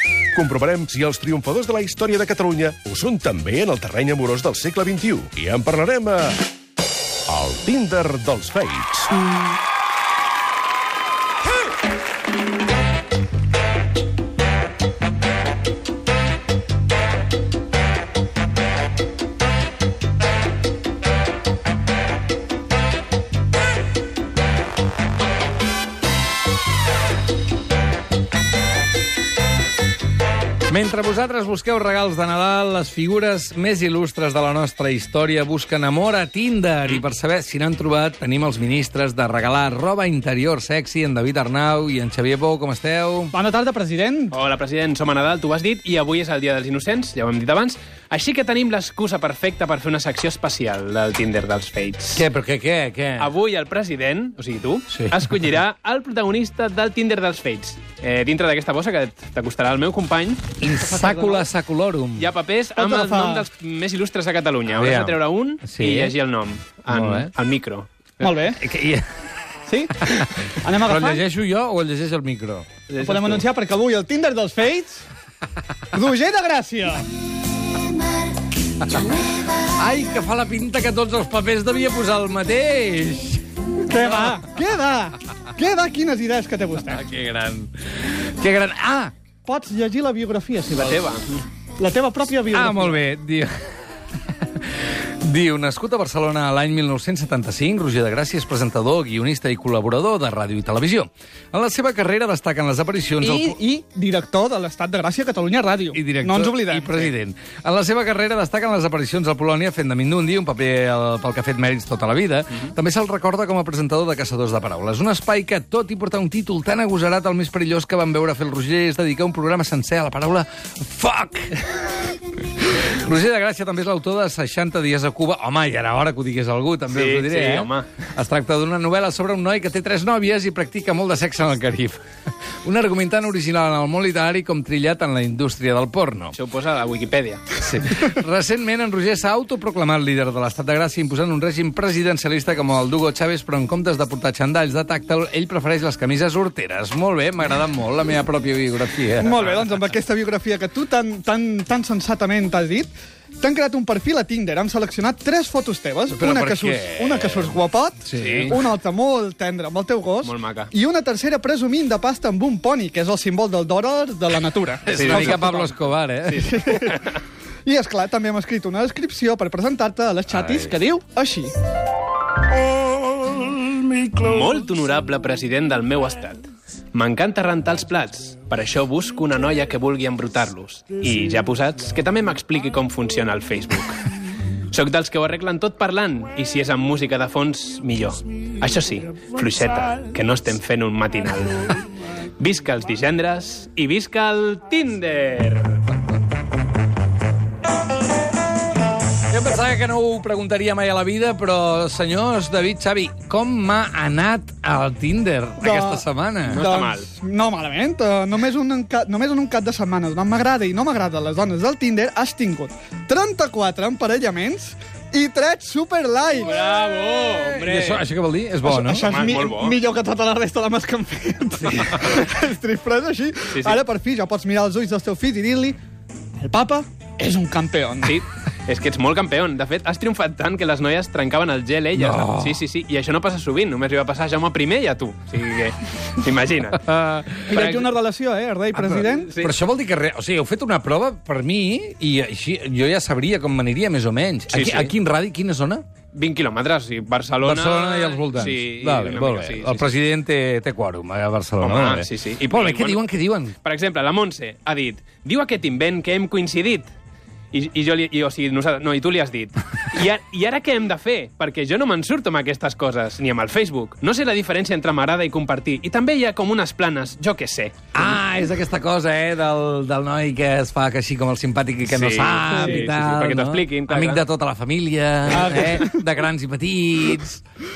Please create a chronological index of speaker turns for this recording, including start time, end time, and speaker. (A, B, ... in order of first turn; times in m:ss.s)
0:00.3-0:06.4 A
0:07.3-0:09.2 A
0:30.7-0:43.3 B
0:43.3-0:44.4 C
0:44.3-0:52.2 D
0:52.2-0:53.3 B
0:53.2-1:00.5 D
1:00.6-1:02.3 B
1:00.8-1:01.5 C
1:02.2-1:08.2 D
1:02.8-1:03.4 C
1:04.7-1:06.1 B
1:06.9-1:07.3 B
1:08.2-1:08.6 C
1:08.6-1:09.0 B
1:10.0-1:12.7 B
1:10.6-1:11.2 C
1:12.9-1:13.4 D
1:13.0-1:15.0 C
1:15.9-1:17.1 C
1:18.8-1:23.4 B
1:23.9-1:27.0 C
1:26.8-1:29.1 B
1:29.4-1:31.0 C
1:30.7-1:31.4 D
1:31.8-1:33.0 C
1:32.5-1:33.5 B
1:34.3-1:43.5 B
1:43.2-1:47.1 C
1:45.9-2:01.6 B
2:02.6-2:12.0 B
2:06.9-2:08.0 D
2:12.6-2:16.3 B
2:16.3-2:17.6 D
2:17.6-2:29.3 B
2:29.2-2:45.7 C
2:36.1-2:37.5 B
2:38.1-2:38.5 B
2:38.1-2:38.5 D
2:40.2-2:40.7 D
2:44.9-2:46.8 B
2:44.9-2:47.2 D
2:46.4-2:47.0 C
2:47.6-2:51.5 C
2:54.1-3:04.0 D
3:04.7-3:11.8 D
3:12.4-3:15.8 D
3:19.3-3:26.6 B
3:25.6-3:36.6 C
3:26.4-3:27.1 D
3:36.4-3:38.0 D
3:37.6-3:39.0 B
3:38.6-3:45.8 C
3:39.0-3:39.8 D
3:41.8-3:42.2 D
3:43.5-3:43.8 D
3:46.4-3:48.2 C
3:48.0-3:56.9 D
3:52.0-3:52.6 B
3:56.8-3:57.4 B
3:57.5-3:57.9 D
3:57.5-3:59.3 C
3:58.8-3:59.5 D
3:59.4-4:05.8 B
4:04.5-4:04.9 D
4:06.1-4:09.9 D
4:07.4-4:13.5 B
4:11.6-4:13.0 D
4:13.6-4:16.9 D
4:17.5-4:27.8 D
4:27.9-4:37.4 B
4:31.9-4:34.3 D
4:32.5-4:32.8 C
4:35.3-4:36.0 C